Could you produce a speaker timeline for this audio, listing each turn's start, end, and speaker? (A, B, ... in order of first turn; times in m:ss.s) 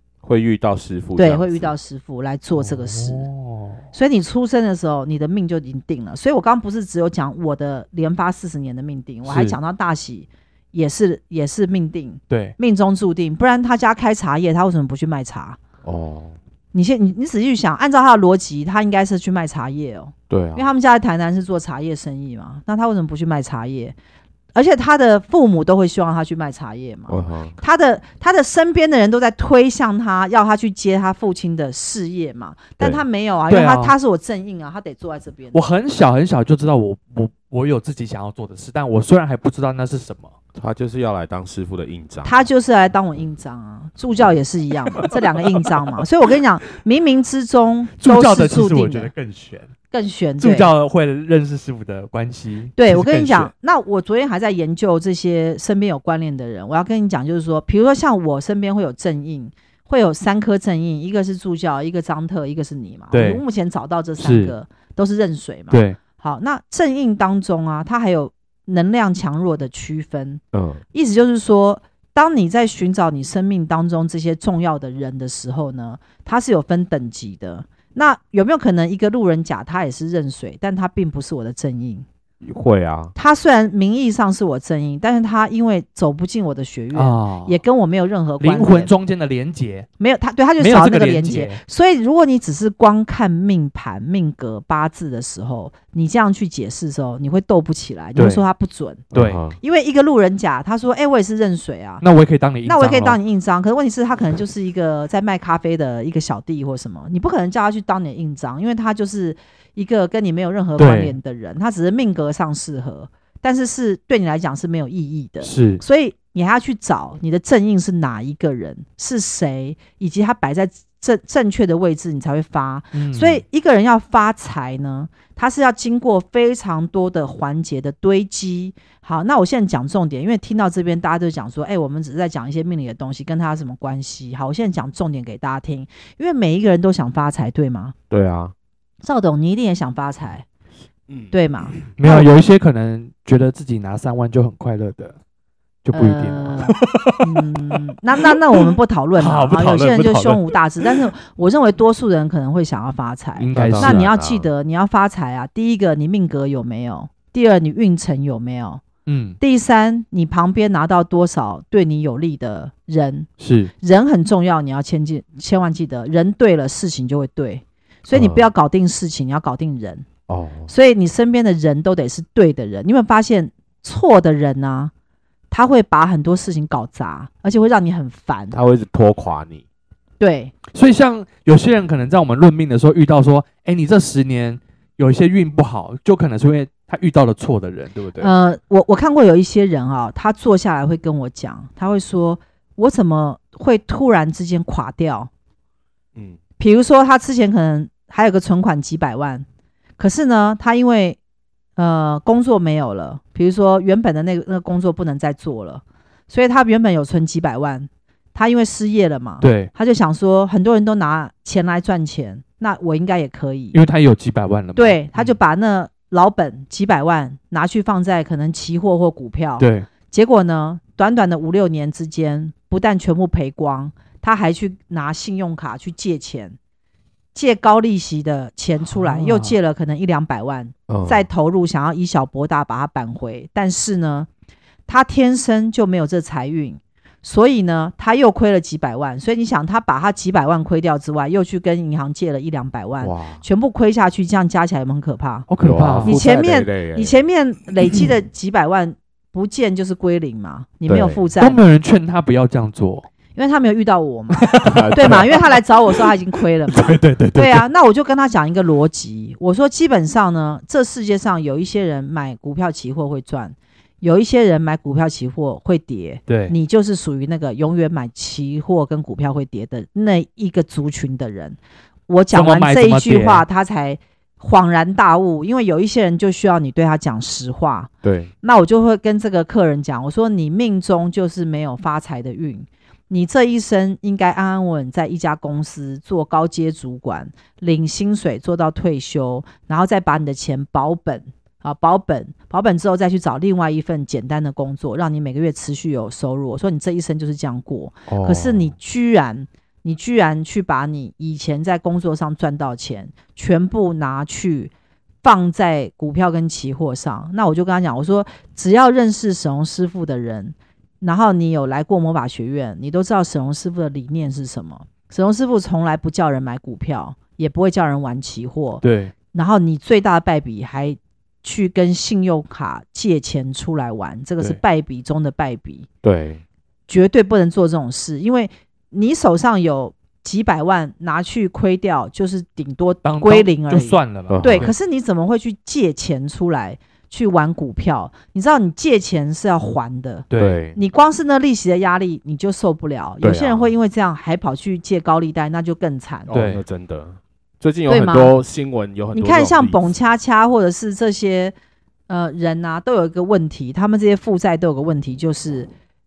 0:00.2-0:01.8 A
0:01.2-0:03.3 B
0:02.6-0:03.8 C
0:03.9-0:15.6 B
0:09.2-0:09.6 C
0:12.3-0:12.6 C
0:15.8-0:16.4 A
0:16.7-0:24.0 B
0:20.3-0:20.7 A
0:24.5-0:35.6 B
0:27.1-0:27.6 A
0:33.5-0:33.9 C
0:35.5-0:40.3 C
0:40.6-0:42.4 A
0:42.2-0:49.1 B
0:48.0-0:49.7 C
0:49.9-0:50.7 B
0:50.4-0:53.5 C
0:52.8-1:10.4 B
1:03.1-1:03.4 C
1:04.2-1:04.5 C
1:05.7-1:06.0 C
1:10.5-1:10.8 A
1:10.9-1:22.1 B
1:22.4-1:23.1 A
1:23.2-1:28.9 B
1:26.9-1:27.6 C
1:28.4-1:29.9 C
1:30.0-1:39.0 B
1:30.6-1:31.6 C
1:38.2-1:38.4 C
1:39.1-1:39.4 C
1:39.1-1:39.6 A
1:39.6-1:42.0 B
1:42.0-1:43.2 C
1:42.6-2:18.0 B
1:50.8-1:51.2 C
1:55.4-1:55.8 C
2:02.9-2:03.4 C
2:18.1-2:18.5 A
2:19.0-2:20.4 B
2:21.1-2:21.3 A
2:21.3-2:22.3 B
2:22.0-2:25.2 C
2:25.8-2:28.6 C
2:25.9-2:38.8 B
2:29.2-2:30.5 C
2:33.4-2:34.0 C
2:33.6-2:34.5 A
2:39.1-2:39.4 C
2:39.4-2:43.3 B
2:43.4-2:43.7 C
2:43.8-2:50.1 B
2:48.1-2:48.5 A
2:50.3-2:50.7 A
2:50.7-2:54.9 B
2:55.5-2:58.6 B
2:58.5-2:59.6 A
3:00.2-3:00.5 B
3:00.7-3:08.1 C
3:08.0-3:08.3 A
3:08.2-3:15.3 B
3:16.6-3:19.5 B
3:20.0-3:21.2 B
3:21.8-3:33.8 B
3:29.4-3:29.7 C
3:33.7-3:35.3 C
3:34.8-3:46.6 B
3:39.6-3:39.9 C
3:47.3-3:54.3 B
3:48.9-3:49.6 C
3:50.9-3:51.3 A
3:54.9-4:05.5 B
4:03.0-4:03.4 A
4:05.5-4:06.2 C
4:05.6-4:07.2 A
4:06.0-4:11.6 B
4:10.9-4:11.2 A
4:11.4-4:13.1 C
4:13.4-4:31.6 B
4:14.4-4:15.5 C
4:14.6-4:15.4 A
4:16.7-4:17.7 C
4:26.3-4:26.6 C
4:32.1-4:37.9 B
4:32.3-4:33.4 C
4:38.0-4:38.3 A
4:38.4-5:04.7 B
4:58.1-4:58.7 A
5:05.2-5:25.9 B
5:18.8-5:19.1 C
5:26.0-5:26.4 A
5:26.9-5:46.3 B
5:33.0-5:34.7 C
5:34.3-5:34.7 A
5:40.3-5:40.6 C
5:40.4-5:40.8 A
5:43.2-5:43.7 A
5:46.3-5:49.9 A
5:46.3-5:46.6 C
5:47.9-5:48.4 B
5:49.1-5:51.5 B
5:52.1-5:55.7 B